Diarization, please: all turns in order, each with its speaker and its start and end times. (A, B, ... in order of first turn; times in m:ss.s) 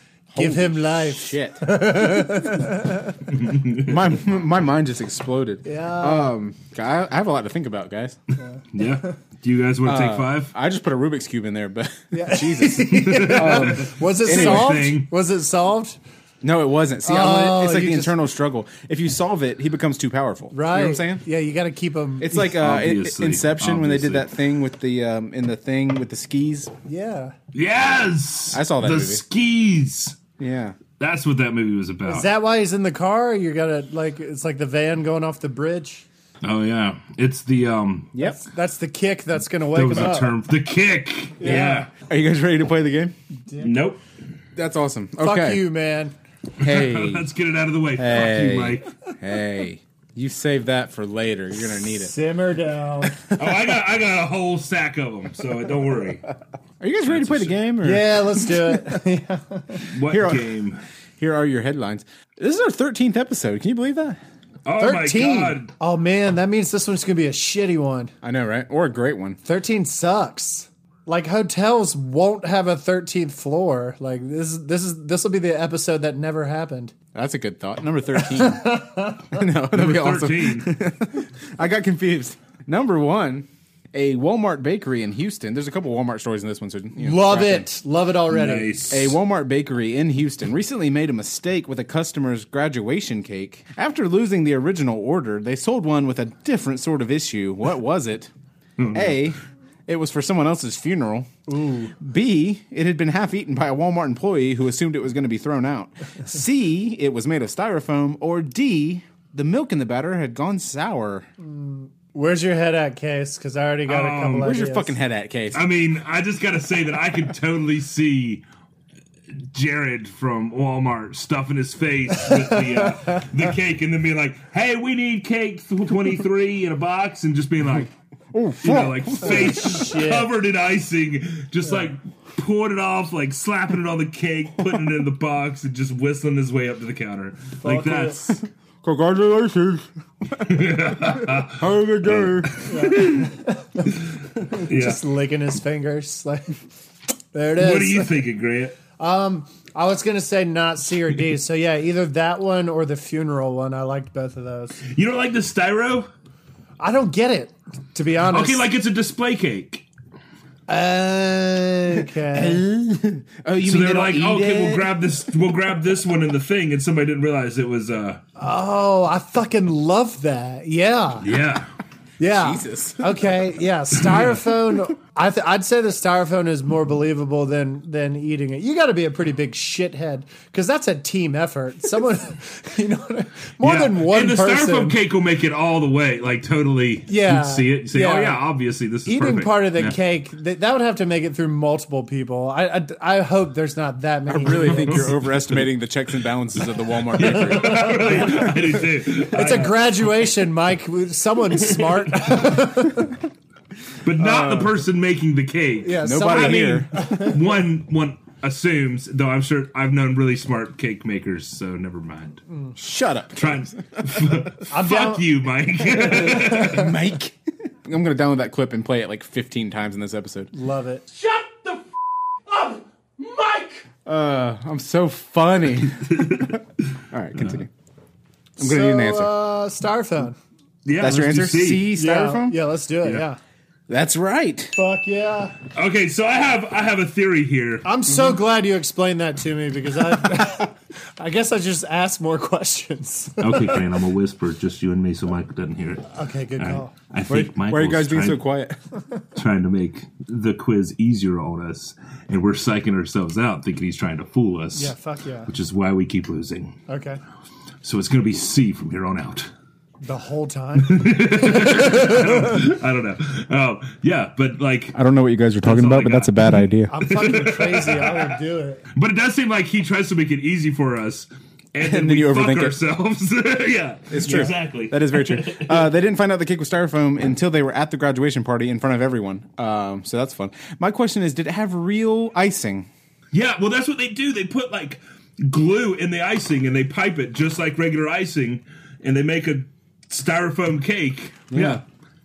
0:00.3-0:01.6 A
0:00.4-0:03.2 B
0:03.3-0:04.1 C
0:03.7-0:08.2 A
0:05.6-0:06.3 B
0:08.7-0:10.5 C
0:09.8-0:14.8 A
0:12.1-0:16.0 B
0:12.9-0:15.1 C
0:16.4-0:21.2 A
0:17.0-0:18.1 B
0:20.5-0:22.5 B
0:22.2-0:26.7 A
0:22.5-0:24.3 C
0:26.8-0:27.3 B
0:27.5-0:30.2 C
0:28.5-0:29.2 A
0:30.4-0:30.8 A
0:31.0-0:32.3 C
0:32.1-0:36.0 B
0:36.4-0:38.1 C
0:38.1-0:38.4 A
0:38.2-0:40.3 B
0:39.7-0:41.9 C
0:41.4-0:41.9 B
0:42.0-0:43.1 A
0:43.4-0:43.8 B
0:43.6-0:44.0 C
0:44.6-0:45.6 A
0:45.2-0:46.1 B
0:46.6-0:47.3 A
0:46.6-0:48.9 C
0:48.0-0:52.1 A
0:51.7-0:53.2 B
0:53.2-0:53.6 A
0:53.4-0:56.2 C
0:56.8-0:58.8 A
0:57.0-0:57.7 C
0:57.8-0:59.9 B
0:59.9-1:00.8 C
1:00.1-1:00.5 A
1:01.2-1:04.2 A
1:04.6-1:05.7 C
1:04.8-1:08.1 B
1:08.2-1:09.4 A
1:09.4-1:16.9 B
1:17.1-1:18.7 A
1:18.2-1:19.4 B
1:19.3-1:27.7 A
1:19.7-1:20.7 C
1:27.0-1:28.9 B
1:28.3-1:29.2 C
1:28.9-1:38.3 A
1:38.8-1:39.3 C
1:38.9-1:41.3 A
1:41.5-1:41.9 B
1:42.0-1:51.3 A
1:51.4-1:55.0 B
1:53.9-1:54.5 C
1:54.4-1:55.6 A
1:55.5-1:58.4 C
1:59.3-2:07.9 C
2:02.2-2:03.2 B
2:08.3-2:09.6 A
2:08.6-2:18.3 C
2:09.2-2:10.3 B
2:17.6-2:18.3 B
2:18.8-2:20.5 A
2:20.4-2:23.3 C
2:21.5-2:22.6 A
2:22.6-2:24.0 B
2:24.0-2:25.0 C
2:24.5-2:26.6 B
2:27.3-2:28.2 B
2:27.6-2:28.8 C
2:29.0-2:34.8 B
2:34.8-2:36.1 C
2:36.8-2:38.6 B
2:38.3-2:39.8 C
2:40.7-2:42.6 B
2:42.3-2:44.9 A
2:43.6-2:48.2 C
2:48.4-2:51.3 B
2:51.2-2:51.7 C
2:52.2-3:05.0 B
2:52.4-2:53.3 A
2:54.0-2:54.4 C
3:03.6-3:10.0 C
3:07.1-3:08.4 B
3:09.0-3:15.1 B
3:14.3-3:18.5 A
3:14.5-3:15.6 C
3:17.2-3:19.9 C
3:17.2-3:23.2 B
3:21.6-3:22.1 C
3:24.0-3:32.4 C
3:24.2-3:24.8 A
3:25.8-3:27.4 B
3:26.0-3:27.1 A
3:32.5-3:32.8 B
3:32.8-3:34.5 A
3:33.3-3:36.9 C
3:34.7-3:35.3 B
3:36.0-3:36.9 B
3:36.1-3:40.5 A
3:40.5-3:41.1 B
3:41.2-3:41.8 C
3:42.5-3:43.7 C
3:44.0-3:46.1 A
3:45.8-3:46.6 C
3:47.1-3:47.7 A
3:47.4-3:47.6 C
3:48.6-3:50.4 B
3:48.6-3:49.3 A
3:50.8-3:51.9 C
3:51.0-3:52.6 A
3:51.9-3:53.4 B
3:53.9-3:54.8 A
3:54.8-3:55.6 B
3:55.7-3:57.8 C
3:57.8-4:03.9 B
4:03.4-4:08.4 C
4:06.1-4:06.9 B
4:07.3-4:08.8 A
4:09.4-4:14.9 C
4:14.7-4:15.5 B
4:15.5-4:16.7 C
4:16.9-4:17.2 B
4:17.8-4:19.5 C
4:20.0-4:22.6 B
4:20.8-4:24.9 C
4:24.9-4:26.9 A
4:25.6-4:26.5 C
4:26.9-4:28.8 B
4:27.0-4:28.4 C
4:28.9-4:35.9 C
4:31.8-4:32.8 A
4:34.1-4:42.9 A
4:43.3-4:51.8 C
4:51.5-4:51.8 A